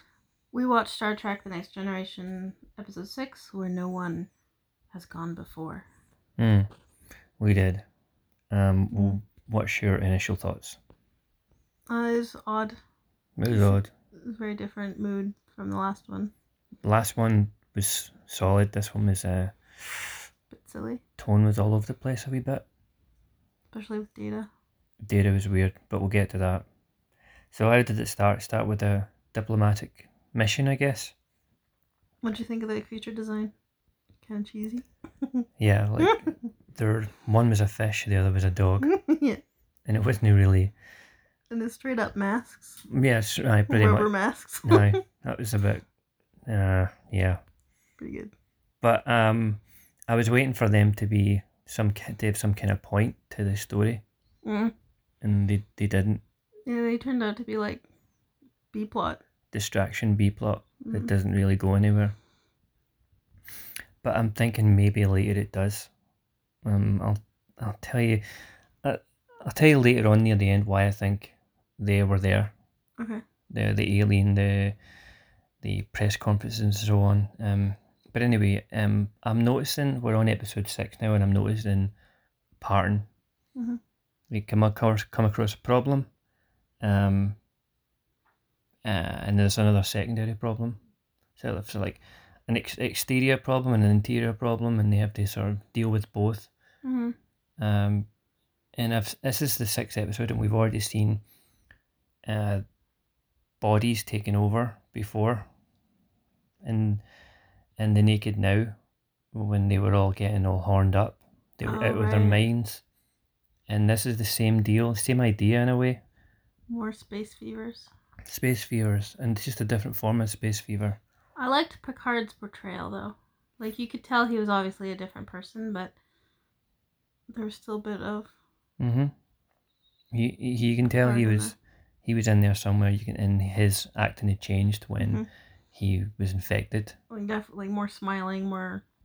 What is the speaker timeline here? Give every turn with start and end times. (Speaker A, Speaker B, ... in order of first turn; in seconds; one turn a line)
Speaker A: 0.5-4.3
Speaker A: 4.9-5.8
Speaker B: 6.4-6.7
Speaker B: 7.4-7.8
Speaker B: 8.5-10.8
Speaker A: 11.9-12.8
Speaker B: 13.4-13.9
Speaker A: 13.4-16.3
Speaker B: 16.8-19.6
Speaker A: 20.5-21.0
Speaker B: 21.2-22.6
Speaker A: 23.7-24.5
Speaker B: 25.0-26.6
Speaker B: 27.5-31.1
Speaker A: 32.2-33.5
Speaker A: 34.2-35.3
Speaker B: 35.6-38.9
Speaker A: 38.8-39.4
Speaker B: 39.9-40.7
Speaker A: 41.5-42.8
Speaker B: 42.9-44.1
Speaker A: 43.7-45.0
Speaker B: 44.6-45.8
Speaker B: 46.5-47.4
Speaker A: 48.0-48.3
Speaker B: 48.8-54.0
Speaker A: 54.4-54.7
Speaker B: 55.2-56.2
Speaker A: 56.6-57.8
Speaker A: 58.7-59.2
Speaker B: 59.5-62.1
Speaker A: 60.8-61.1
Speaker B: 64.0-65.9
Speaker B: 66.6-68.2
Speaker B: 68.8-72.5
Speaker A: 73.0-73.2
Speaker B: 73.5-74.8
Speaker B: 75.6-81.9
Speaker B: 82.6-83.1
Speaker A: 83.5-83.8
Speaker B: 84.3-86.1
Speaker B: 86.8-87.4
Speaker B: 88.8-90.8
Speaker B: 91.4-96.5
Speaker A: 96.8-97.1
Speaker B: 97.6-98.1
Speaker B: 98.8-101.2
Speaker B: 102.2-102.6
Speaker B: 103.6-105.5
Speaker B: 106.6-107.0
Speaker B: 107.8-108.7
Speaker B: 109.3-112.8
Speaker A: 111.6-112.4
Speaker B: 113.7-116.0
Speaker A: 116.7-117.9
Speaker B: 118.2-121.0
Speaker A: 121.4-126.0
Speaker A: 127.3-128.3
Speaker B: 128.8-129.1
Speaker B: 130.1-137.0
Speaker A: 131.0-131.5
Speaker A: 135.0-135.3
Speaker A: 137.1-138.8